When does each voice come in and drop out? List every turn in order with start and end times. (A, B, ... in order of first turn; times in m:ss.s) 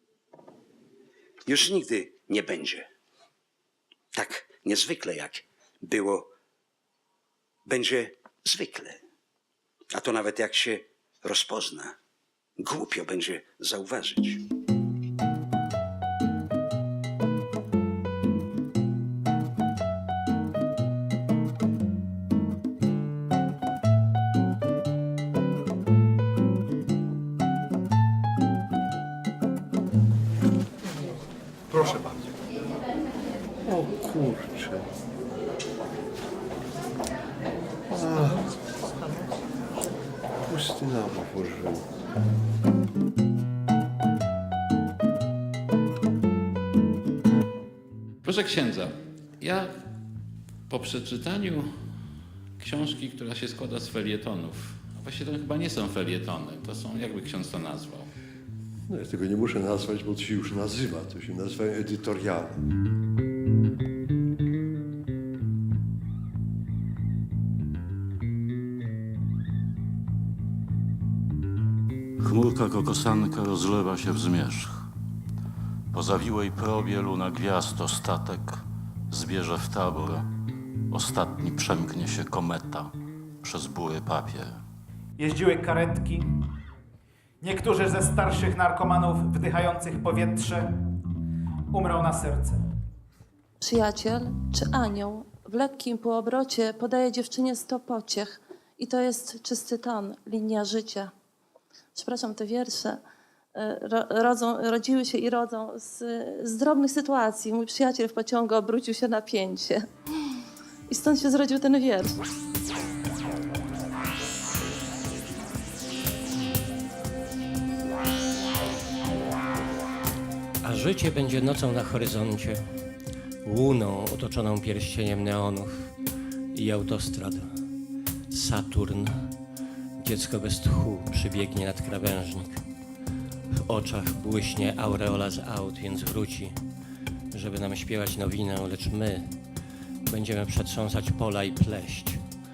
0:01.4-0:02.9 A
0:04.1-0:06.3 A
0:07.6-0:09.0 A
0:09.9-0:12.0 A
0:12.6-0:14.4 A
0:31.7-0:32.1 B
0:33.7-0:34.8 B
0:37.9-0:38.4 B
0:40.5-0:41.8 B
0:48.2-0:49.7 C
0:50.7-0:51.7 C
0:52.6-0:58.1 C
0:58.9-1:02.6 B
1:12.2-1:14.9 D
1:15.9-1:20.2 D
1:20.9-1:24.6 D
1:25.2-1:26.3 E
1:27.4-1:30.7 E
1:31.7-1:32.6 E
1:33.6-1:41.1 F
1:41.9-1:43.0 F
1:43.5-1:52.2 F
2:00.6-2:02.6 G
2:03.4-2:05.9 G
2:06.5-2:07.5 G
2:08.3-2:09.3 G
2:10.0-2:12.6 G
2:13.5-2:16.6 G
2:17.3-2:19.3 G
2:20.0-2:22.2 G